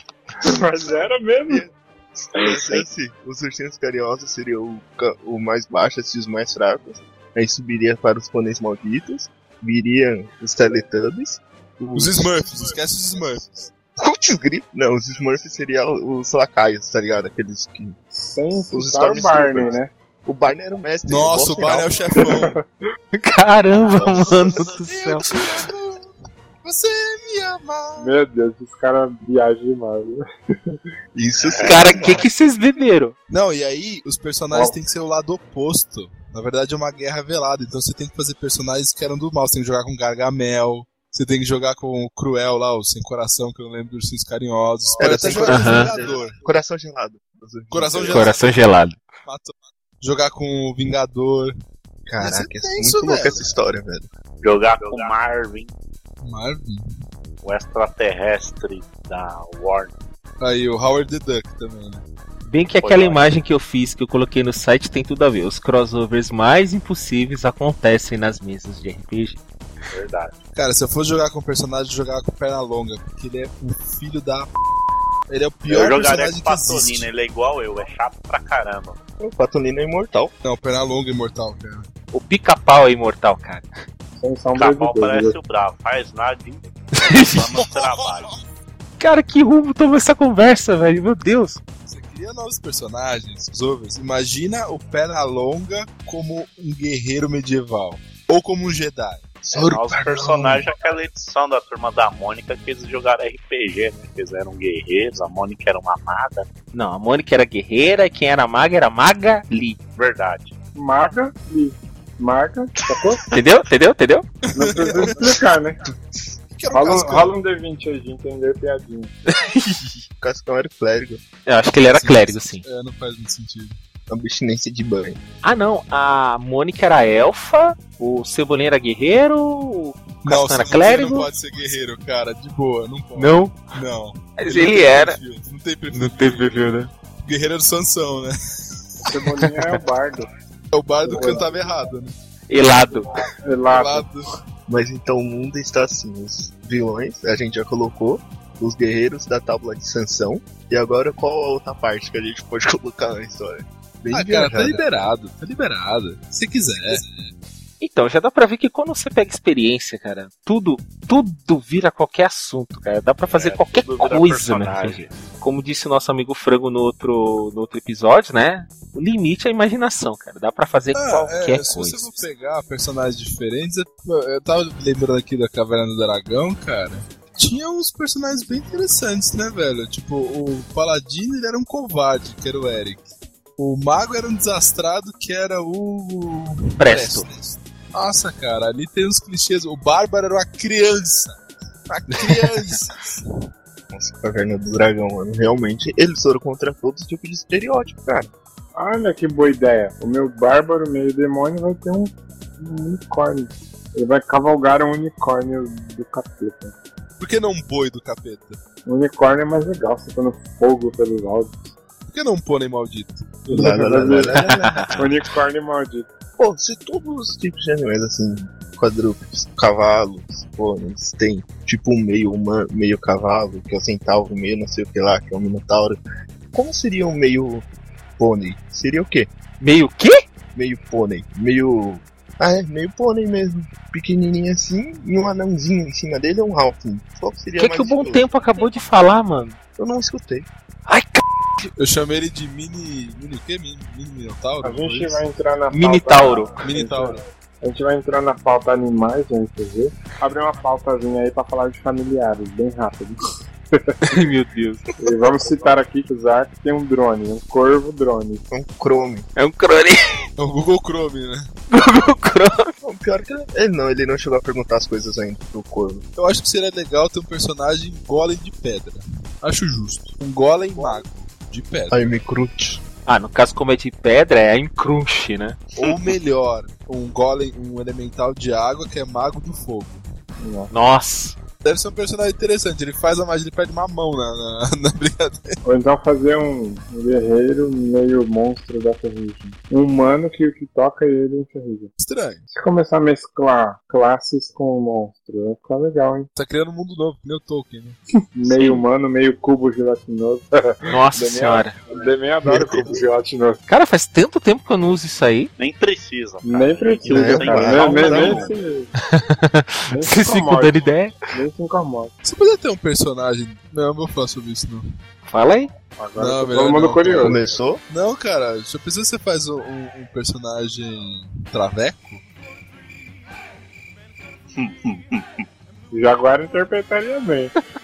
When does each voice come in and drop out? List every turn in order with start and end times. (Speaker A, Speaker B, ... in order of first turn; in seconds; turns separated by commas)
Speaker A: 0.4-1.6, Speaker B: 0.8-12.7, Speaker C: 2.4-2.8, Speaker D: 11.9-13.5, Speaker B: 13.9-18.0, Speaker A: 18.1-19.9, Speaker B: 18.7-22.0, Speaker D: 21.1-22.6, Speaker A: 22.1-22.6, Speaker E: 23.1-25.6, Speaker B: 23.9-24.4, Speaker D: 24.4-26.1, Speaker D: 26.6-28.2, Speaker A: 28.0-30.8, Speaker B: 31.1-32.3, Speaker C: 31.5-31.8, Speaker E: 31.6-33.1, Speaker D: 33.3-46.4, Speaker A: 34.5-34.8, Speaker B: 45.0-48.3, Speaker E: 45.4-45.9, Speaker D: 47.7-48.6, Speaker E: 48.1-49.0, Speaker D: 49.2-51.5, Speaker B: 52.1-54.1, Speaker D: 52.2-53.5, Speaker C: 54.4-55.7, Speaker D: 56.2-56.8, Speaker C: 57.4-60.0, Speaker D: 60.4-62.0, Speaker E: 62.5-69.4, Speaker C: 62.8-63.2, Speaker C: 69.9-70.3, Speaker D: 70.5-74.5, Speaker D: 75.3-77.1, Speaker C: 75.7-79.0, Speaker B: 79.2-80.3, Speaker D: 80.4-81.9, Speaker E: 82.1-83.7, Speaker A: 84.2-85.4, Speaker C: 84.5-88.4, Speaker E: 87.0-87.7, Speaker D: 87.6-88.1, Speaker E: 89.0-91.6, Speaker D: 91.8-100.6, Speaker B: 99.4-99.8, Speaker C: 99.7-106.5, Speaker E: 106.7-109.8, Speaker C: 110.0-110.5, Speaker A: 110.7-113.2, Speaker E: 113.3-114.3, Speaker D: 114.4-115.3, Speaker A: 114.5-115.8, Speaker D: 116.5-117.3, Speaker A: 116.7-119.1, Speaker E: 119.3-120.0, Speaker B: 120.2-121.2, Speaker E: 121.5-122.6, Speaker D: 121.9-123.8, Speaker B: 124.1-125.2, Speaker E: 125.4-131.3, Speaker D: 130.2-136.6, Speaker E: 133.2-133.8, Speaker E: 134.4-135.2, Speaker E: 135.9-136.9, Speaker D: 137.2-138.3, Speaker D: 139.0-139.4, Speaker A: 139.1-140.3, Speaker D: 140.7-142.1, Speaker A: 141.0-141.8, Speaker E: 142.5-143.2, Speaker A: 142.9-144.1, Speaker D: 143.7-144.3, Speaker B: 144.7-154.8, Speaker D: 154.1-157.3, Speaker E: 157.8-172.1, Speaker C: 163.3-165.1, Speaker D: 170.9-193.2, Speaker E: 186.8-187.3, Speaker E: 192.1-192.5, Speaker B: 193.9-198.3, Speaker A: 198.7-206.7, Speaker D: 207.2-208.6, Speaker A: 208.8-211.7, Speaker D: 212.1-213.3, Speaker A: 213.5-216.1, Speaker B: 213.5-214.9, Speaker B: 216.4-226.0, Speaker B: 226.5-227.7, Speaker B: 228.2-229.3, Speaker E: 229.6-230.2, Speaker B: 230.5-238.3, Speaker E: 237.6-239.6, Speaker B: 239.8-240.5, Speaker E: 240.9-241.7, Speaker D: 241.8-245.2, Speaker A: 244.6-253.2, Speaker E: 245.7-246.6, Speaker D: 246.6-247.2, Speaker A: 253.7-254.0, Speaker E: 254.1-254.8, Speaker A: 255.0-258.4, Speaker B: 258.5-259.3, Speaker E: 259.4-260.0, Speaker D: 260.4-261.5, Speaker E: 261.7-262.7, Speaker B: 262.8-266.1, Speaker D: 266.1-272.1, Speaker B: 271.9-272.8, Speaker E: 273.1-275.9, Speaker D: 275.7-280.0, Speaker A: 280.4-280.7, Speaker E: 280.7-281.4, Speaker D: 281.6-285.6, Speaker A: 285.6-291.9, Speaker D: 292.0-292.4, Speaker A: 292.5-296.3, Speaker D: 296.3-298.0, Speaker A: 298.3-303.6, Speaker E: 298.4-298.8, Speaker E: 300.9-301.8, Speaker B: 302.5-303.0, Speaker E: 303.7-305.5, Speaker C: 305.6-308.5, Speaker A: 306.4-308.9, Speaker B: 307.0-308.5, Speaker E: 309.1-311.1, Speaker A: 309.9-312.1, Speaker D: 312.2-314.8, Speaker E: 315.2-315.7, Speaker A: 315.9-317.5, Speaker D: 316.1-322.2, Speaker B: 317.2-317.8, Speaker C: 324.5-325.3, Speaker A: 325.9-327.5